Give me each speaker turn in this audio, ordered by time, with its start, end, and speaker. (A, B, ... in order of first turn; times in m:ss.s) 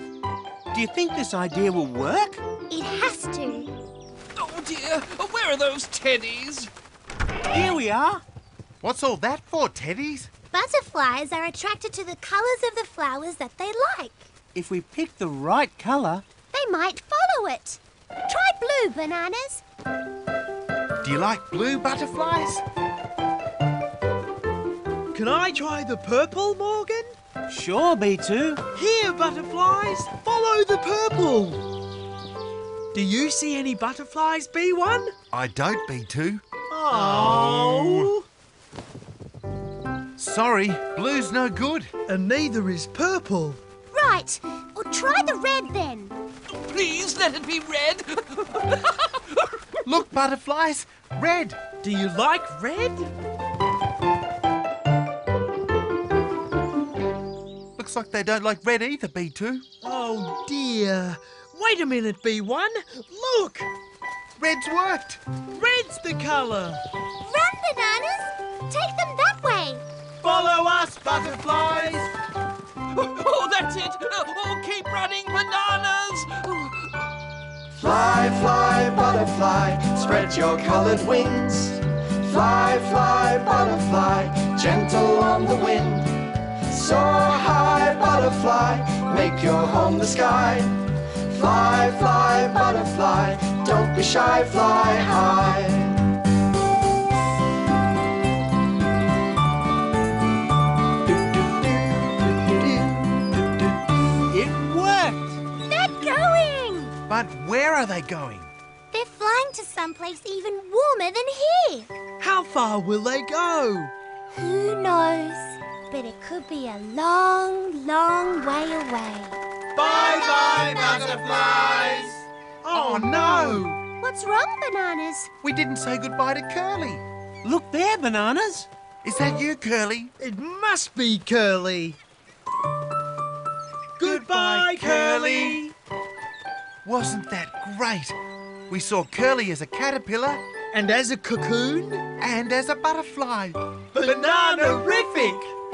0:00.7-0:02.4 A
0:02.7-0:03.7 B
0:04.4-0:06.7 C
0:07.5-0:08.2 A
0:08.8-0:10.3 D
0:10.5-0:14.3 B
0:14.5-0:16.2 A
0:16.5-0:19.6 B
0:21.0-0:22.6 D
0:25.1-0:27.1 E
0:27.5-0:28.7 A
0:28.7-0:31.6 E
0:32.9-0:35.1 E
0:35.3-0:36.4 D
0:36.7-0:38.2 E
0:37.0-0:38.1 D
0:40.2-0:41.9 D
0:42.1-0:43.6 E
0:43.9-0:46.1 B
0:46.5-0:49.5 C
0:49.8-0:51.6 D
0:51.8-0:53.1 E
0:57.8-0:59.6 D
0:59.8-1:03.7 E
1:04.4-1:05.2 D
1:05.5-1:06.8 E
1:07.2-1:09.8 B
1:10.2-1:12.1 D
1:12.9-1:16.9 C
1:17.8-1:36.0 F
1:41.1-1:43.1 E
1:44.3-1:45.2 E
1:44.5-1:44.8 A
1:45.6-1:46.9 B
1:47.1-1:48.5 D
1:48.9-1:51.9 B
1:52.2-1:53.9 E
1:54.3-1:59.4 B
1:59.8-2:03.7 D
1:59.8-2:01.2 E
2:02.6-2:03.8 E
2:04.0-2:05.3 B
2:05.4-2:07.0 D
2:07.4-2:08.7 A
2:09.0-2:10.1 D
2:10.2-2:12.0 E
2:14.0-2:15.7 E
2:14.0-2:15.6 D
2:16.8-2:18.2 D
2:18.7-2:20.4 D
2:20.7-2:22.0 E
2:22.2-2:23.6 D
2:23.9-2:25.5 E